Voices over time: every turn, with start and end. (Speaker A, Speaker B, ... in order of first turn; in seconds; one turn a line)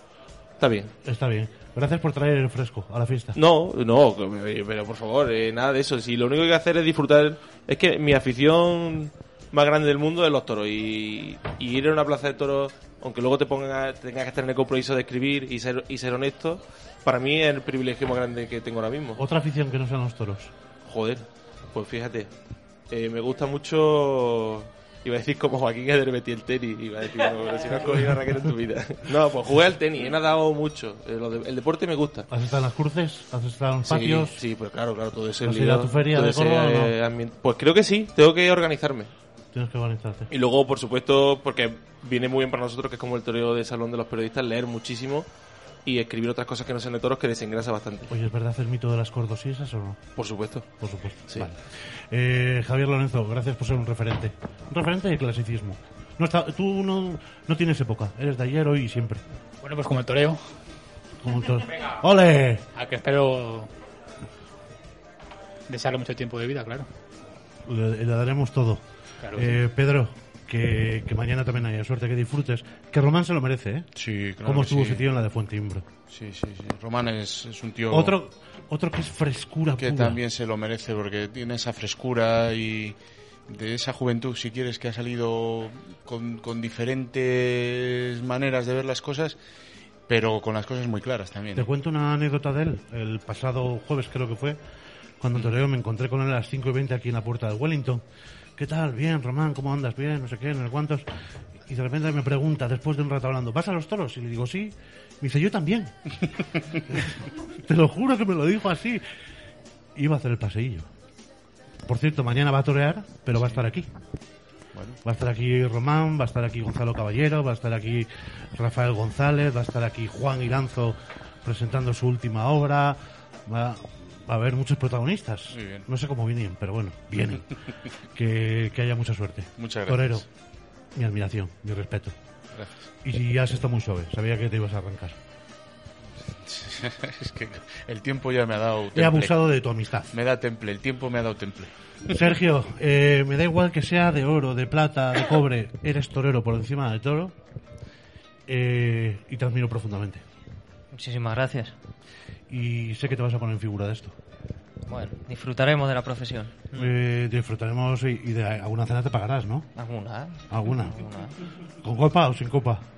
Speaker A: 0.6-0.9
Speaker B: 1.0-3.4
Speaker A: 3.3-19.2
Speaker B: 19.2-20.5
Speaker A: 20.9-22.3
Speaker A: 22.9-32.3
Speaker B: 32.3-34.4
Speaker A: 33.9-39.1
Speaker B: 35.4-36.9
Speaker B: 39.5-40.3
Speaker A: 40.3-45.2
Speaker A: 45.9-48.1
Speaker B: 48.1-50.0
Speaker A: 50.1-50.7
Speaker B: 50.8-59.2
Speaker C: 59.6-60.5
Speaker B: 61.2-62.6
Speaker C: 62.8-63.7
Speaker C: 65.7-66.9
Speaker B: 67.6-73.9
Speaker C: 69.2-69.6
Speaker D: 74.0-75.0
Speaker B: 74.4-75.8
Speaker D: 76.1-78.1
Speaker B: 77.9-80.2
Speaker D: 79.8-83.0
Speaker D: 83.5-89.4
Speaker D: 90.1-91.7
Speaker B: 91.5-94.6
Speaker B: 95.2-98.0
Speaker B: 98.6-101.1
Speaker B: 101.6-106.1
Speaker B: 106.9-109.0
Speaker B: 110.0-110.9
Speaker B: 111.8-113.9
Speaker D: 113.4-113.6
Speaker D: 114.7-115.0
Speaker B: 115.0-127.5
Speaker D: 125.5-125.9
Speaker B: 128.1-130.2
Speaker D: 129.6-130.2
Speaker B: 130.9-132.1
Speaker B: 133.0-135.2
Speaker D: 136.3-139.3
Speaker B: 138.9-140.1
Speaker D: 140.1-142.1
Speaker B: 142.1-147.3
Speaker B: 148.5-150.2
Speaker E: 150.9-151.8
Speaker B: 152.5-154.2
Speaker E: 154.9-156.7
Speaker B: 156.7-159.7
Speaker E: 159.8-161.3
Speaker B: 160.5-161.1
Speaker B: 161.8-162.8